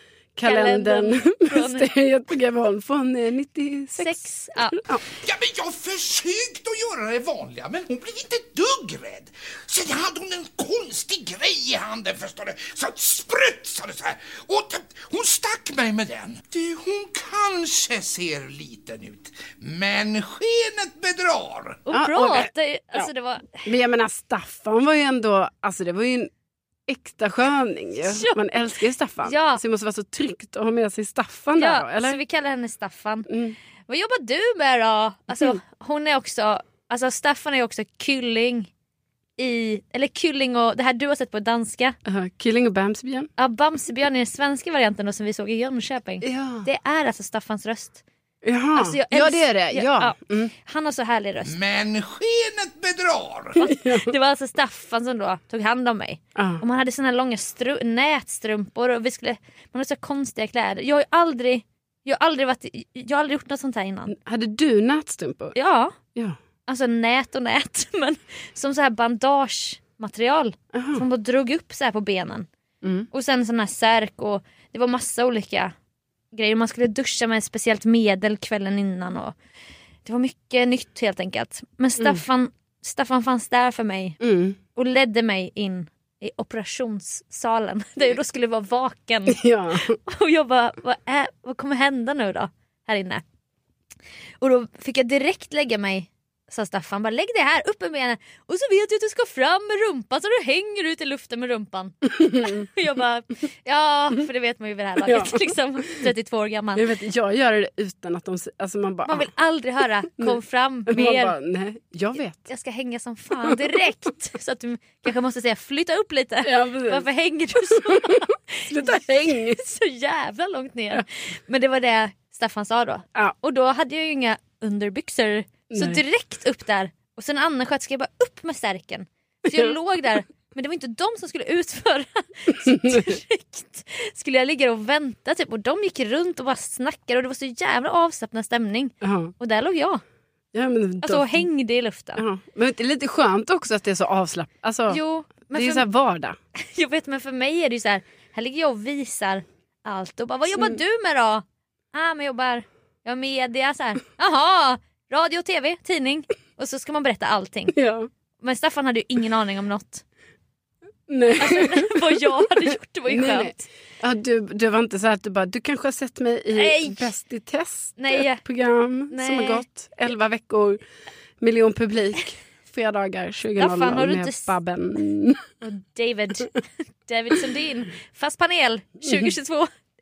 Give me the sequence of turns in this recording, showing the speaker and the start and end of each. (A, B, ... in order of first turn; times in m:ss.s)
0:00.4-0:05.1 A
0:00.4-0:01.9 B
0:04.0-0:04.8 B
0:05.2-0:21.8 C
0:21.8-0:23.7 B
0:21.9-0:23.1 A
0:23.6-0:26.3 A
0:26.9-0:32.2 A
0:28.0-0:28.4 B
0:29.2-0:29.6 B
0:31.6-0:33.3 B
0:33.3-0:33.6 A
0:33.9-0:38.7 B
0:39.4-0:42.0 B
0:42.0-0:43.3 A
0:43.4-0:48.0 B
0:46.2-0:46.6 A
0:48.4-0:50.5 A
0:48.8-0:51.5 B
0:51.4-0:53.6 C
0:53.6-0:54.1 A
0:53.6-1:04.1 B
0:56.4-0:56.6 A
1:04.1-1:05.5 A
1:05.5-1:06.0 B
1:06.7-1:12.5 B
1:10.7-1:11.0 A
1:12.8-1:13.1 A
1:13.1-1:15.7 B
1:16.3-1:19.3 B
1:20.0-1:24.2 B
1:24.2-1:24.6 A
1:24.7-1:33.2 B
1:29.3-1:30.0 A
1:34.4-1:46.9 B
1:42.1-1:42.6 A
1:45.0-1:46.1 A
1:46.8-1:49.3 A
1:49.0-1:51.3 B
1:50.2-1:52.5 A
1:52.4-2:20.0 B
1:56.4-1:57.0 A
1:57.7-1:59.6 A
2:05.7-2:06.0 A
2:09.5-2:09.7 A
2:12.6-2:13.1 A
2:19.0-2:19.3 A
2:20.5-2:21.4 A
2:21.0-2:22.2 B
2:22.1-2:26.4 A
2:24.9-2:25.8 B
2:26.6-2:37.8 B
2:37.7-2:38.1 A
2:38.4-2:40.0 B
2:41.1-2:42.2 A
2:41.4-2:43.6 B
2:43.1-2:50.8 A
2:46.5-2:47.0 B
2:48.0-2:48.4 B
2:49.1-2:49.6 B
2:51.4-2:55.4 A
2:53.6-2:54.5 B
2:55.6-2:59.7 B
2:59.0-2:59.3 A